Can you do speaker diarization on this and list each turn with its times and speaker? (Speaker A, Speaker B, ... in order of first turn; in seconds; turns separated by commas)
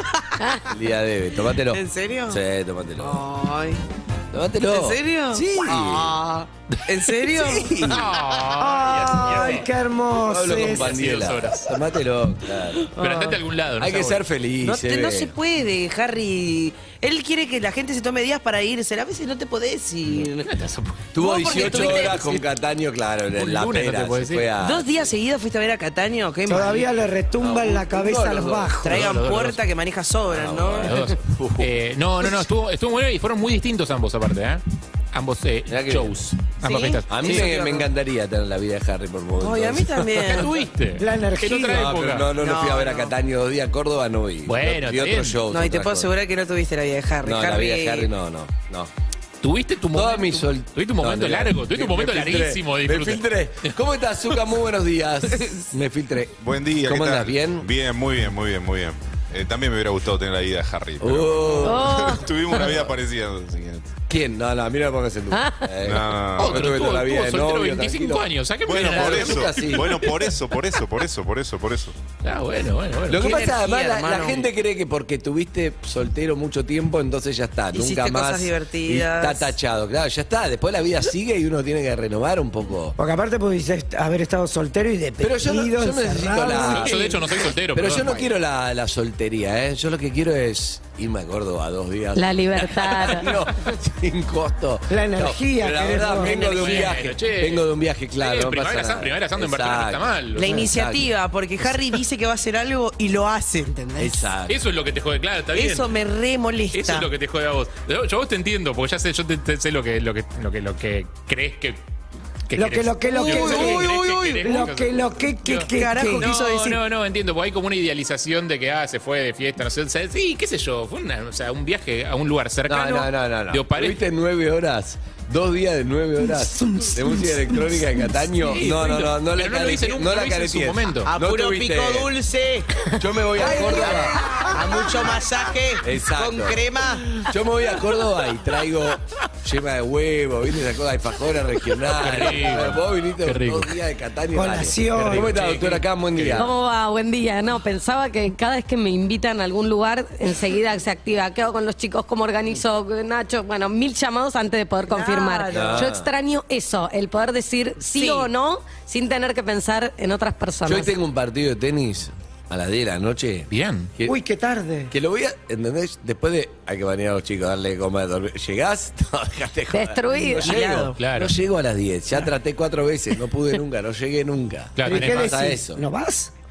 Speaker A: 0.1-0.6, Speaker B: 0.7-3.2, Speaker A: 1.7-2.4, Speaker A: 3.0-3.8, Speaker B: 4.3-6.2, Speaker A: 4.7-8.1, Speaker B: 7.3-8.0, Speaker C: 7.8-9.7, Speaker D: 8.6-10.9, Speaker B: 10.2-12.9, Speaker C: 10.6-11.8, Speaker A: 12.9-13.4, Speaker C: 13.0-14.2, Speaker B: 13.8-15.3, Speaker A: 14.6-20.5, Speaker C: 20.2-22.3, Speaker B: 21.1-24.9, Speaker A: 21.2-22.4, Speaker C: 23.3-24.5, Speaker A: 24.6-26.9, Speaker D: 26.5-28.9, Speaker B: 27.4-28.9, Speaker A: 28.8-30.9, Speaker C: 28.9-29.6, Speaker B: 30.3-32.4, Speaker C: 30.8-37.5, Speaker B: 35.7-36.1, Speaker A: 36.6-37.9, Speaker B: 37.1-40.5, Speaker A: 39.4-40.5, Speaker C: 40.2-42.3, Speaker D: 41.0-41.9, Speaker B: 41.7-46.1, Speaker A: 42.3-43.1, Speaker C: 44.5-45.4, Speaker A: 45.5-48.1, Speaker B: 47.2-48.9, Speaker C: 49.4-53.7, Speaker B: 49.9-57.7, Speaker E: 56.4-63.9, Speaker B: 61.0-62.1, Speaker F: 61.6-62.2, Speaker B: 64.1-70.1, Speaker F: 65.3-65.7, Speaker E: 65.8-66.7, Speaker C: 66.4-69.8, Speaker E: 68.7-71.9, Speaker C: 72.2-73.5, Speaker B: 73.1-83.0, Speaker A: 73.2-74.5, Speaker A: 77.7-79.5, Speaker D: 83.0-87.2, Speaker B: 85.2-101.1, Speaker C: 86.6-88.3, Speaker F: 92.2-93.3, Speaker D: 94.9-96.6, Speaker C: 96.1-97.7, Speaker C: 98.2-100.6, Speaker A: 100.3-104.3, Speaker B: 104.0-104.6, Speaker C: 104.5-105.9, Speaker A: 105.5-107.1, Speaker C: 106.7-111.8, Speaker C: 112.5-124.0, Speaker D: 112.5-116.3, Speaker A: 113.0-114.5, Speaker A: 115.7-116.8, Speaker B: 122.7-132.1, Speaker D: 126.5-127.0, Speaker C: 128.5-131.1, Speaker A: 131.1-137.3, Speaker B: 132.9-134.3, Speaker B: 135.8-146.5, Speaker C: 141.9-143.8, Speaker D: 144.3-145.3, Speaker C: 144.9-146.5, Speaker F: 146.3-160.9, Speaker A: 154.9-155.9, Speaker B: 155.5-156.1, Speaker A: 157.9-158.3, Speaker B: 160.7-164.2, Speaker C: 163.5-163.9, Speaker D: 164.0-164.9, Speaker B: 164.9-175.8, Speaker F: 169.7-170.5, Speaker A: 170.4-171.0, Speaker C: 171.0-171.3, Speaker C: 174.8-175.5, Speaker D: 174.8-176.3